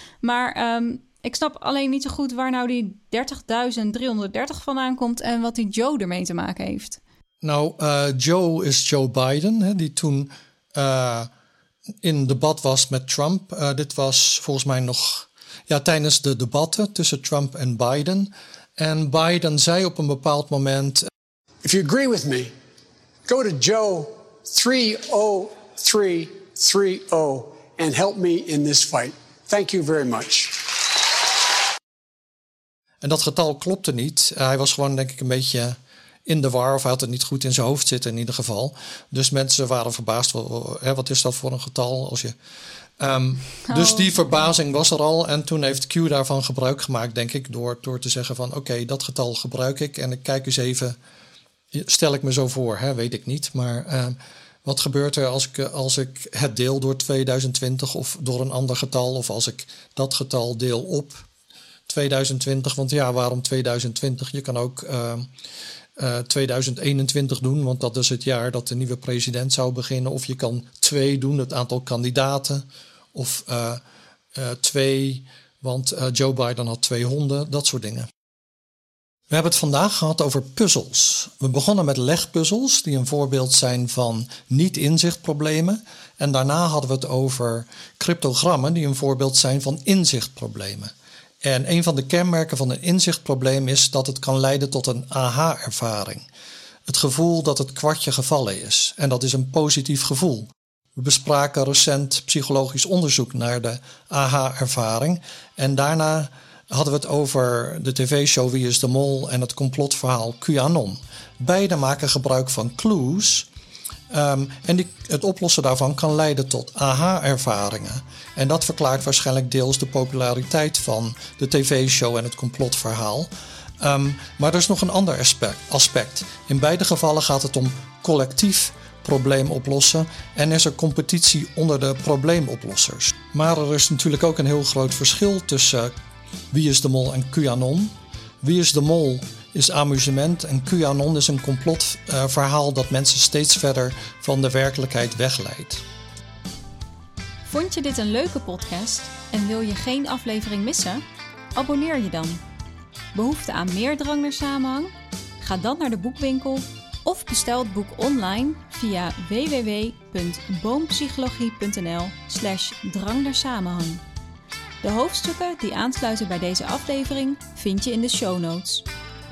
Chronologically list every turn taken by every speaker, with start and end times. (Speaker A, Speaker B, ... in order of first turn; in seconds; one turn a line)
Speaker A: 0.2-7.0
Speaker B: 7.4-11.3
Speaker B: 12.0-21.1
Speaker C: 21.6-22.5
Speaker C: 23.3-30.8
Speaker B: 33.0-42.3
Speaker B: 43.0-51.0
Speaker A: 43.7-44.2
Speaker B: 51.7-61.3
Speaker B: 61.9-65.3
Speaker B: 66.0-73.8
Speaker B: 74.3-78.1
Speaker B: 79.3-90.9
Speaker B: 91.4-96.3
Speaker B: 96.9-113.5
Speaker B: 114.1-135.9
Speaker B: 136.5-145.8
Speaker A: 147.4-151.0
Speaker A: 151.6-152.4
Speaker A: 153.1-164.0
Speaker A: 164.8-168.9